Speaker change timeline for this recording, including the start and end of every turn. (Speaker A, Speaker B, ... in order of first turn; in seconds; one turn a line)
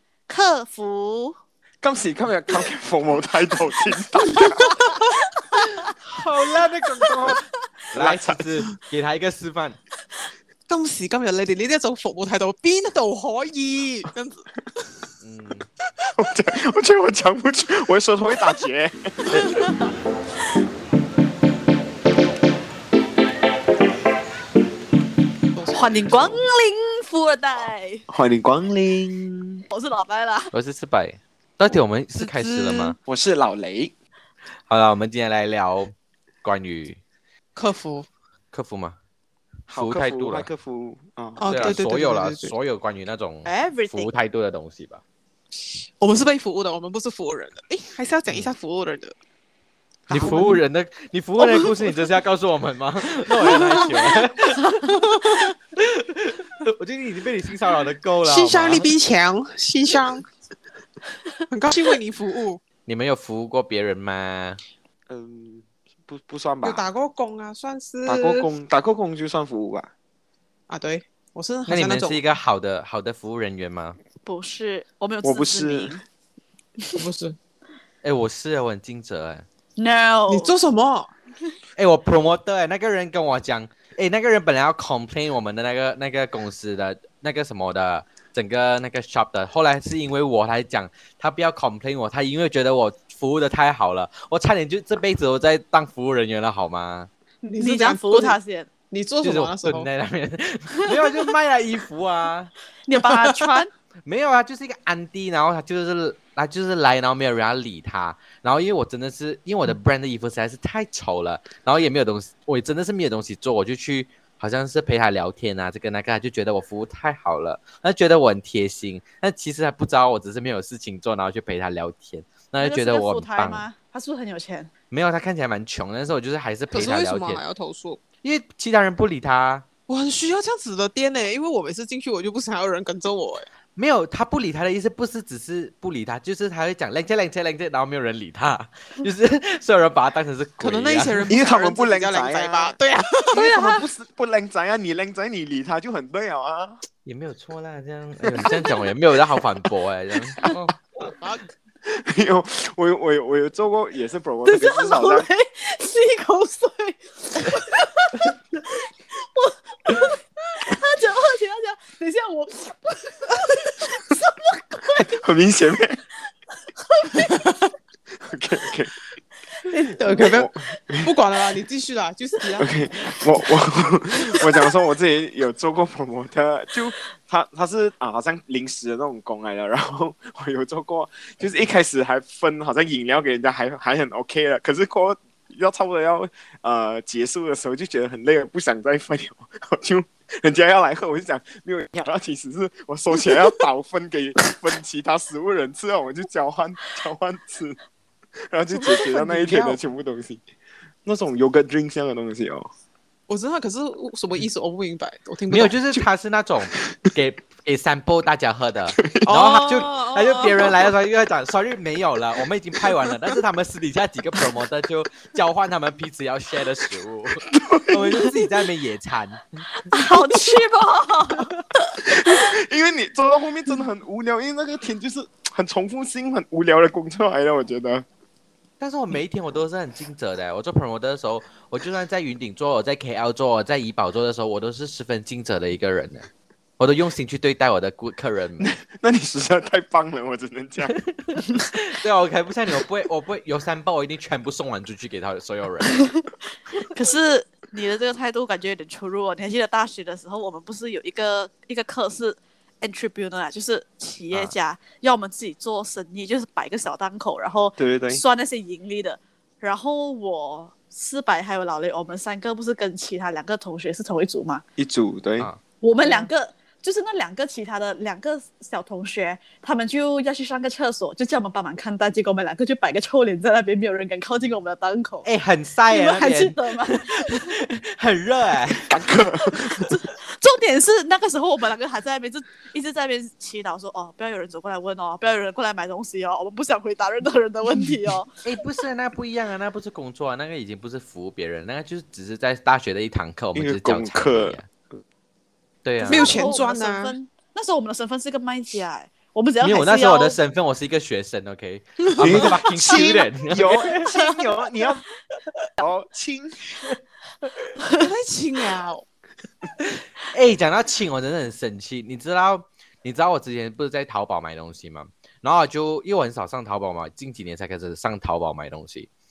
Speaker A: 0.3-1.4
Speaker B: 1.8-4.8
Speaker A: 4.8-5.9
Speaker C: 6.0-7.4
Speaker A: 7.1-7.3
Speaker B: 7.9-8.4
Speaker C: 7.9-9.8
Speaker D: 10.7-14.4
Speaker C: 15.2-15.7
Speaker B: 16.1-19.6
Speaker A: 19.5-19.8
Speaker D: 25.5-26.4
Speaker A: 25.7-28.0
Speaker B: 28.1-29.6
Speaker A: 29.7-30.5
Speaker C: 30.5-33.0
Speaker D: 32.2-33.0
Speaker B: 33.0-33.9
Speaker C: 34.7-35.9
Speaker C: 36.4-37.0
Speaker D: 37.5-38.1
Speaker C: 38.5-39.0
Speaker C: 39.7-40.5
Speaker B: 39.7-41.8
Speaker D: 41.4-42.5
Speaker C: 41.5-45.0
Speaker A: 43.4-44.1
Speaker D: 45.6-49.1
Speaker D: 50.1-50.6
Speaker C: 50.1-55.0
Speaker D: 51.4-51.7
Speaker D: 53.4-54.0
Speaker D: 54.8-55.5
Speaker C: 55.8-58.9
Speaker D: 58.2-60.3
Speaker D: 61.5-62.6
Speaker C: 62.9-64.6
Speaker B: 65.1-66.9
Speaker D: 66.6-68.5
Speaker B: 68.0-69.9
Speaker D: 70.7-72.2
Speaker C: 71.7-74.0
Speaker A: 74.2-76.0
Speaker B: 75.2-76.0
Speaker D: 77.0-77.4
Speaker C: 78.0-79.4
Speaker A: 79.8-80.5
Speaker D: 80.3-81.1
Speaker C: 81.8-97.1
Speaker D: 97.4-98.4
Speaker A: 97.5-98.7
Speaker D: 98.9-99.9
Speaker C: 99.2-102.5
Speaker A: 102.9-103.7
Speaker C: 104.0-123.7
Speaker A: 122.6-124.7
Speaker C: 124.9-127.4
Speaker D: 126.7-128.0
Speaker C: 128.2-129.7
Speaker D: 129.9-133.4
Speaker C: 133.7-141.2
Speaker D: 140.6-143.5
Speaker B: 141.3-142.8
Speaker A: 143.3-143.8
Speaker B: 143.3-146.8
Speaker C: 147.0-150.7
Speaker D: 150.9-151.5
Speaker B: 151.8-155.3
Speaker A: 154.4-165.2
Speaker B: 164.9-166.0
Speaker A: 166.8-167.5
Speaker B: 168.2-168.9
Speaker A: 169.7-170.4
Speaker D: 169.9-170.5
Speaker B: 170.1-171.1
Speaker D: 171.0-172.7
Speaker B: 172.6-197.8
Speaker B: 198.5-200.4
Speaker D: 198.7-199.8
Speaker B: 201.0-202.7
Speaker D: 203.3-206.0
Speaker C: 205.5-219.7
Speaker D: 209.2-210.9
Speaker B: 217.6-218.0
Speaker A: 219.9-221.6
Speaker B: 222.0-228.0
Speaker C: 228.8-236.3
Speaker C: 236.8-238.7
Speaker B: 238.6-240.9
Speaker C: 240.9-246.2
Speaker A: 246.8-264.6
Speaker B: 257.8-258.2
Speaker B: 264.8-265.5
Speaker A: 265.8-275.3
Speaker C: 275.2-279.0
Speaker A: 275.9-277.6
Speaker B: 278.9-279.8
Speaker A: 279.6-288.4
Speaker C: 288.4-294.7
Speaker B: 293.5-295.0
Speaker C: 295.8-296.4
Speaker A: 296.0-300.4
Speaker D: 296.0-297.1
Speaker C: 299.6-304.0
Speaker B: 302.2-305.0
Speaker D: 302.2-303.3
Speaker B: 305.8-306.7
Speaker A: 307.8-308.1
Speaker D: 308.0-309.0
Speaker C: 310.3-319.1